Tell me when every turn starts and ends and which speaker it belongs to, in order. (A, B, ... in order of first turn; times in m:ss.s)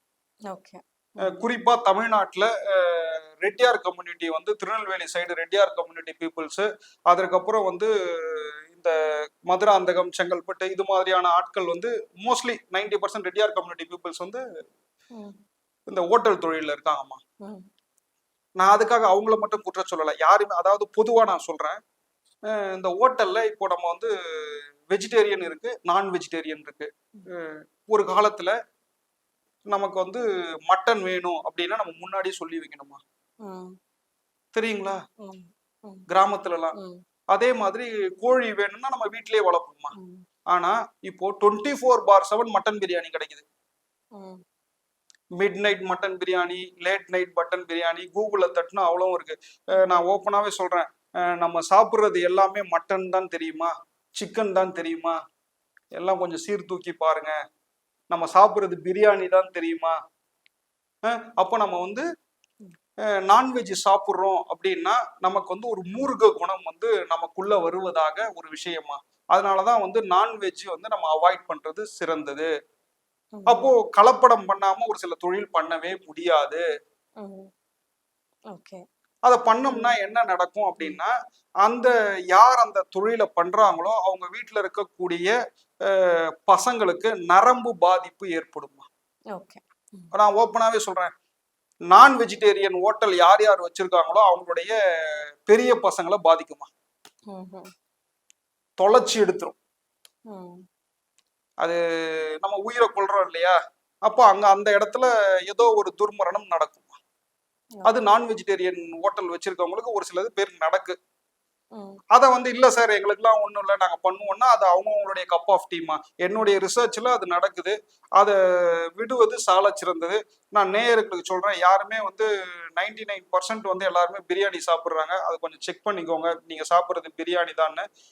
0:00.5-0:01.4 A
0:01.2-0:08.9 B
0:09.5-0:14.4 B
0:15.9-0:17.2 B
0:18.6-0:21.8 B
0:22.6-0:28.5 B
0:29.7-0:33.0 B
0:33.4-0:33.8 A
0:34.5-0:35.0 B
0:35.2-0:36.0 A
0:36.1-0:36.8 B
0:36.8-0:37.0 A
0:37.3-0:39.9 B
0:40.0-0:40.2 A
0:40.5-0:43.4 B
0:44.2-0:44.4 A
0:45.4-0:55.2 B
0:56.0-0:57.3 B
0:58.1-1:00.0 B
1:01.1-1:02.0 B
1:03.3-1:12.5 B
1:13.3-1:13.7 A
1:13.5-1:16.6 B
1:17.2-1:17.5 A
1:18.5-1:18.8 A
1:19.2-1:21.1 B
1:19.7-1:19.9 A
1:21.6-1:25.3 B
1:25.9-1:28.9 B
1:29.3-1:30.1 A
1:30.1-1:31.1 B
1:31.9-1:34.8 B
1:35.5-1:36.7 B
1:37.3-1:37.7 A
1:38.8-1:39.6 B
1:40.3-1:40.6 A
1:42.4-1:47.0 B
1:47.8-1:51.0 B
1:51.8-1:52.0 A
1:52.1-2:07.8 B